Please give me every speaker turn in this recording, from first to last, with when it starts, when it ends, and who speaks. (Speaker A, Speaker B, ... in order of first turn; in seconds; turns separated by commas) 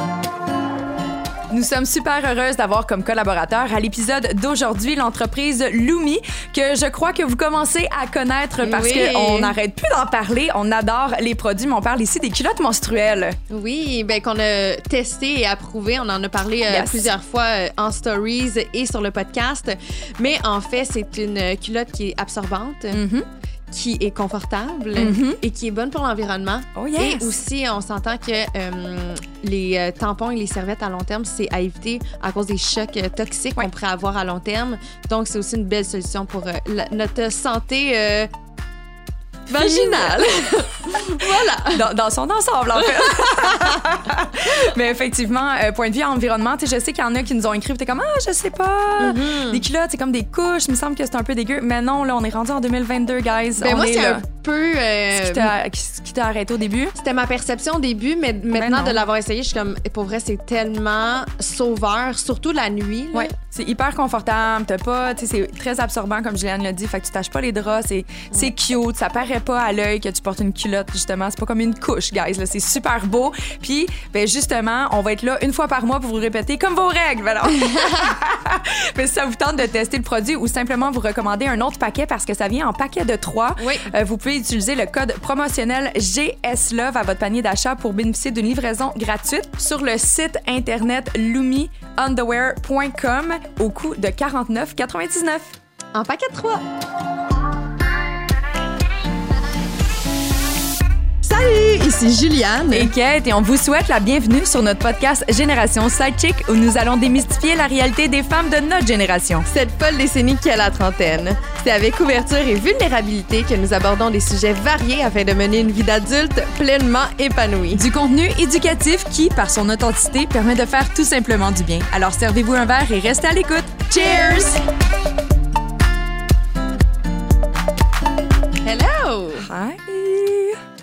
Speaker A: 1.5-13.4, Speaker B: 8.6-9.6, Speaker B: 13.5-23.0, Speaker A: 16.7-17.1, Speaker A: 22.9-23.2, Speaker B: 23.7-38.3, Speaker A: 25.0-25.4, Speaker A: 26.8-27.3, Speaker B: 39.5-41.8, Speaker A: 39.6-40.3, Speaker A: 41.0-54.2, Speaker B: 43.0-43.8, Speaker B: 49.0-49.6, Speaker B: 53.6-55.5, Speaker A: 55.1-57.0, Speaker B: 57.0-63.3, Speaker A: 58.5-59.0, Speaker A: 63.1-95.6, Speaker B: 77.7-78.1, Speaker B: 83.6-83.9, Speaker B: 95.9-96.6, Speaker B: 101.2-102.9, Speaker A: 102.7-109.5, Speaker B: 109.5-117.8, Speaker A: 117.8-124.6, Speaker B: 128.6-129.5, Speaker A: 129.4-130.6